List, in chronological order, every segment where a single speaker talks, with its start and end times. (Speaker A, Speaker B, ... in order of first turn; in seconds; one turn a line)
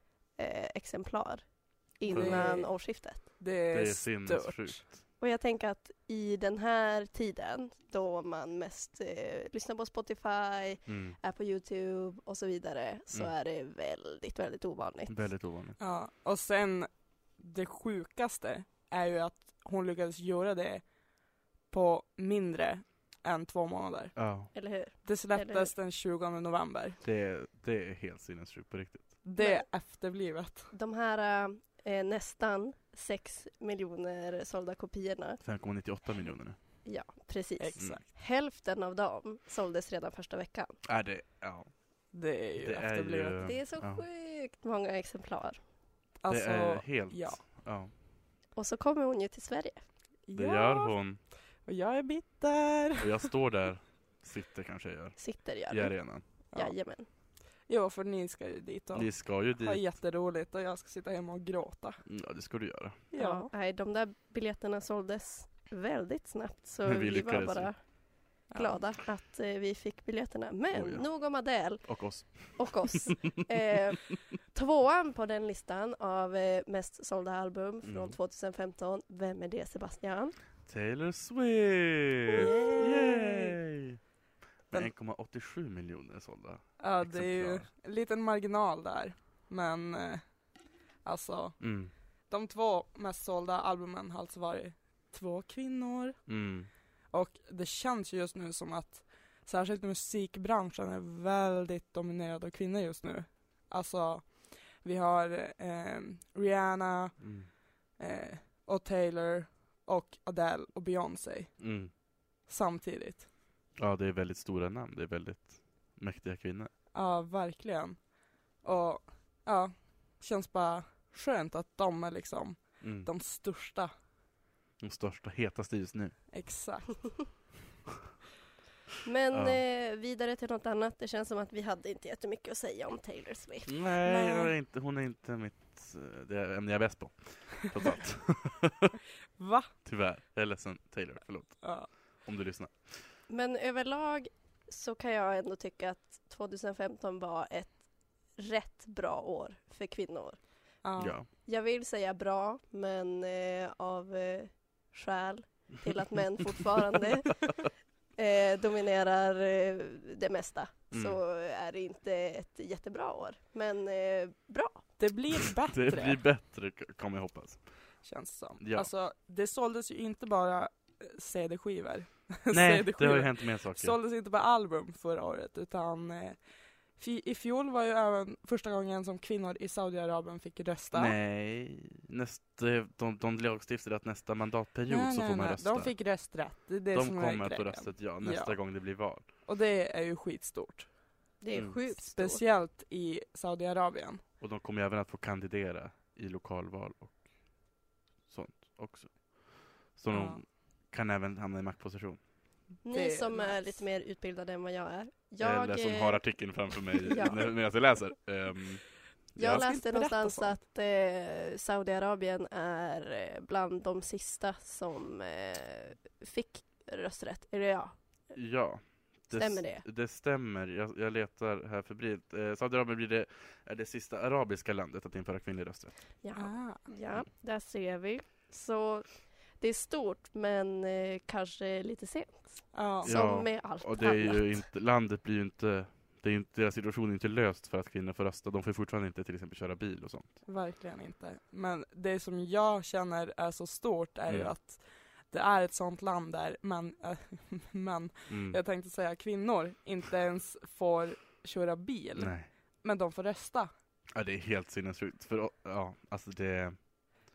Speaker A: 0.4-3.2
Speaker B: 2.1-2.5
Speaker C: 2.1-4.8
Speaker B: 3.7-5.0
Speaker A: 5.2-15.2
Speaker B: 10.9-11.2
Speaker B: 15.1-15.8
Speaker C: 15.8-24.4
Speaker B: 24.2-24.5
Speaker A: 24.5-25.7
Speaker C: 25.1-27.0
Speaker B: 27.0-29.2
Speaker C: 29.2-30.7
Speaker A: 29.4-29.7
Speaker A: 30.7-35.4
Speaker B: 35.4-36.6
Speaker A: 36.9-40.8
Speaker C: 37.6-38.0
Speaker B: 40.9-42.0
Speaker C: 42.1-43.5
Speaker B: 42.6-44.0
Speaker A: 43.4-45.6
Speaker C: 46.2-47.4
Speaker B: 46.3-47.9
Speaker A: 48.5-49.9
Speaker C: 50.3-51.0
Speaker B: 50.3-51.2
Speaker C: 51.6-53.3
Speaker B: 53.0-56.2
Speaker A: 55.2-57.1
Speaker C: 57.7-62.1
Speaker B: 58.9-59.8
Speaker B: 62.1-63.0
Speaker C: 63.1-63.5
Speaker A: 63.1-80.3
Speaker B: 66.8-67.7
Speaker C: 68.5-68.8
Speaker B: 70.7-73.0
Speaker B: 77.8-78.2
Speaker B: 80.7-84.0
Speaker A: 82.4-83.3
Speaker B: 84.7-87.7
Speaker C: 86.8-113.3
Speaker B: 91.6-91.9
Speaker B: 96.3-96.7
Speaker B: 107.2-107.5
Speaker B: 111.6-111.9
Speaker B: 113.8-116.7
Speaker C: 116.9-123.9
Speaker B: 122.8-123.1
Speaker B: 124.8-126.2
Speaker C: 126.3-127.5
Speaker A: 129.1-133.8
Speaker B: 129.3-129.6
Speaker B: 133.7-138.9
Speaker C: 134.0-134.5
Speaker C: 139.4-139.7
Speaker B: 139.8-143.1
Speaker C: 141.6-141.9
Speaker A: 143.3-157.6
Speaker C: 150.8-151.2
Speaker B: 151.0-151.3
Speaker A: 158.2-164.9
Speaker B: 160.9-161.2
Speaker C: 165.0-166.2
Speaker B: 165.7-168.0
Speaker C: 168.0-181.2
Speaker B: 168.6-168.9
Speaker B: 172.5-174.0
Speaker B: 180.9-186.0
Speaker C: 184.9-190.9
Speaker B: 186.9-189.3
Speaker A: 191.4-192.4
Speaker B: 191.5-191.8
Speaker C: 191.9-194.2
Speaker B: 194.4-197.3
Speaker B: 198.3-202.3
Speaker C: 200.1-200.4
Speaker C: 202.8-203.8
Speaker A: 202.8-207.5
Speaker B: 205.4-209.6
Speaker A: 209.4-218.0
Speaker C: 209.5-210.6
Speaker B: 218.3-225.9
Speaker A: 219.3-219.8
Speaker A: 226.2-234.7
Speaker C: 226.4-226.9
Speaker C: 232.7-233.1
Speaker B: 233.0-240.4
Speaker C: 240.5-253.7
Speaker B: 244.3-244.5
Speaker B: 248.3-248.6
Speaker B: 252.2-252.5
Speaker B: 254.1-256.8